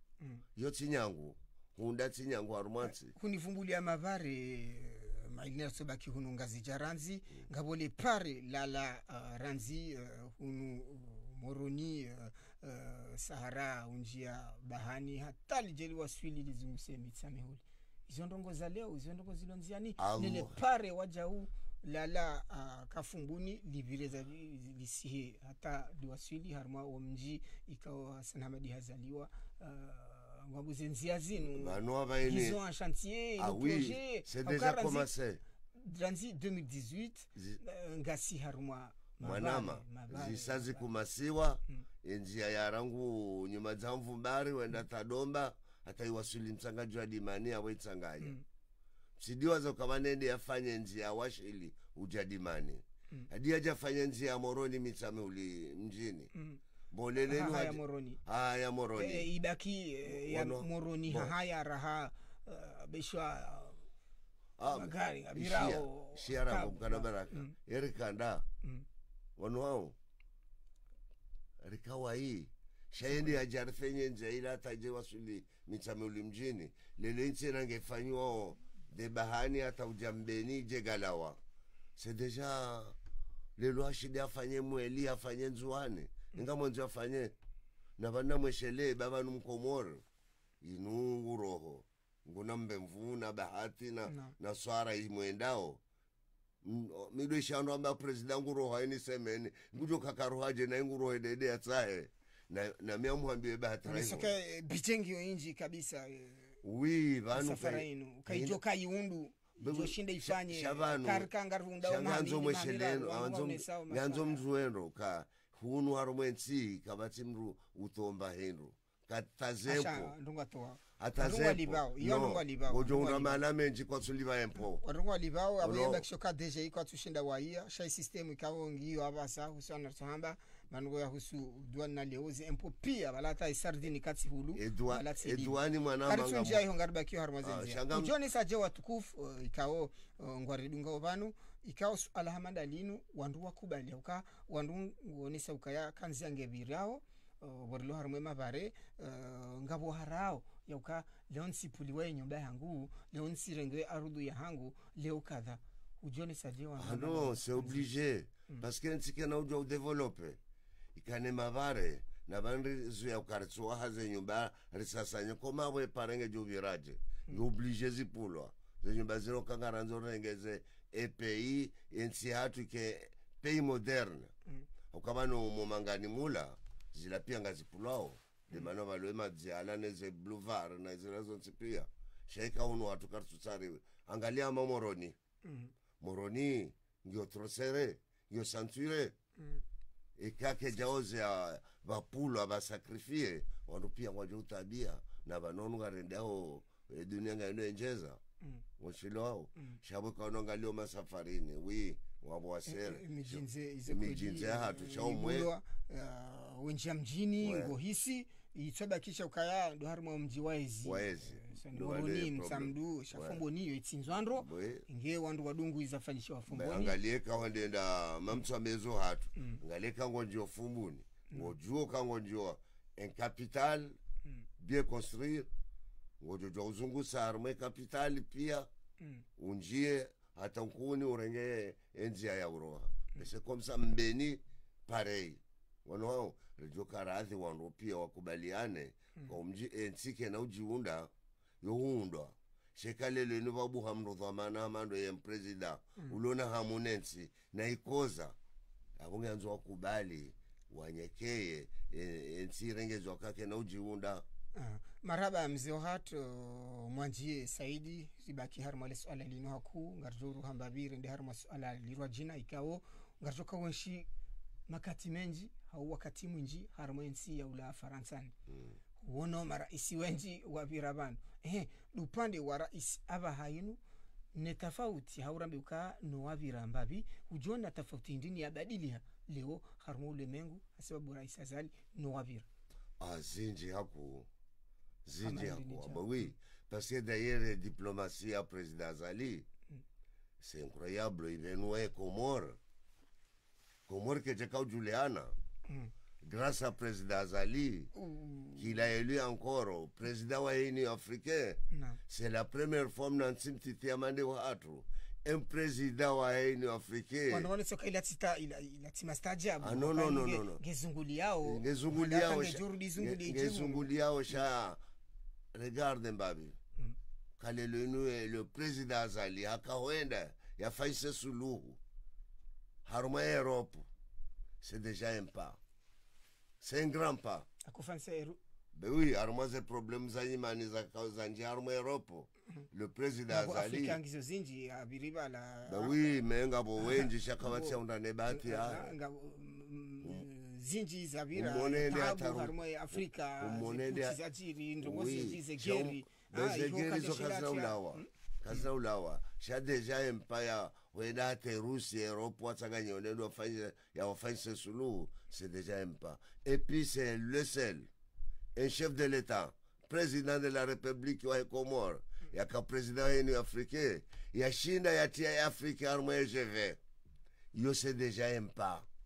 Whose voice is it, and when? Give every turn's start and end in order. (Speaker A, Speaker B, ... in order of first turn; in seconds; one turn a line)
Speaker A: 0.6-3.1
Speaker B: 2.8-35.1
Speaker A: 20.0-20.5
Speaker A: 31.5-32.6
Speaker A: 33.4-35.4
Speaker B: 35.7-40.8
Speaker A: 39.2-48.4
Speaker A: 49.2-56.3
Speaker B: 56.3-56.6
Speaker A: 56.9-59.3
Speaker B: 57.2-58.2
Speaker B: 58.9-63.8
Speaker A: 60.0-61.3
Speaker A: 64.6-68.4
Speaker B: 64.7-67.5
Speaker A: 69.4-69.9
Speaker A: 71.6-81.4
Speaker A: 82.0-83.0
Speaker A: 83.6-87.3
Speaker A: 88.0-90.0
Speaker A: 90.6-95.8
Speaker B: 94.0-94.3
Speaker A: 96.6-104.3
Speaker B: 103.8-106.6
Speaker A: 106.6-108.6
Speaker B: 107.3-114.4
Speaker A: 109.6-111.3
Speaker A: 111.8-120.1
Speaker B: 119.7-123.4
Speaker A: 121.0-124.8
Speaker B: 124.8-157.9
Speaker A: 125.6-126.0
Speaker A: 134.6-136.6
Speaker A: 137.4-138.2
Speaker A: 156.8-160.4
Speaker A: 160.9-174.3
Speaker A: 174.9-185.2
Speaker B: 185.4-185.7
Speaker A: 186.0-189.1
Speaker A: 190.2-198.2
Speaker A: 198.8-205.5
Speaker B: 202.7-217.0
Speaker A: 207.4-207.8
Speaker A: 210.8-213.4
Speaker A: 214.4-214.8
Speaker A: 216.5-224.0
Speaker A: 224.6-225.5
Speaker A: 226.2-228.7
Speaker A: 229.4-241.1
Speaker A: 241.6-248.3
Speaker A: 249.0-254.2
Speaker B: 254.5-264.1
Speaker B: 264.7-268.3
Speaker A: 268.5-268.7
Speaker B: 269.0-273.8
Speaker B: 274.3-282.4
Speaker A: 283.0-284.3
Speaker A: 285.0-289.4
Speaker B: 285.2-286.2
Speaker A: 290.4-292.6
Speaker A: 293.9-295.3
Speaker A: 296.2-297.9
Speaker B: 297.9-298.7
Speaker A: 298.6-307.5
Speaker B: 301.7-302.0
Speaker B: 307.3-313.9
Speaker A: 309.6-310.6
Speaker A: 311.4-314.8
Speaker A: 315.5-316.6
Speaker A: 317.4-321.8
Speaker A: 322.8-323.9
Speaker A: 324.6-325.6
Speaker A: 326.6-327.5
Speaker B: 327.6-328.4
Speaker A: 328.7-334.0
Speaker B: 333.3-336.0
Speaker A: 335.7-338.9
Speaker B: 336.8-337.8
Speaker B: 338.3-348.6
Speaker A: 341.3-344.2
Speaker A: 344.8-357.9
Speaker A: 358.5-366.8
Speaker A: 367.5-368.9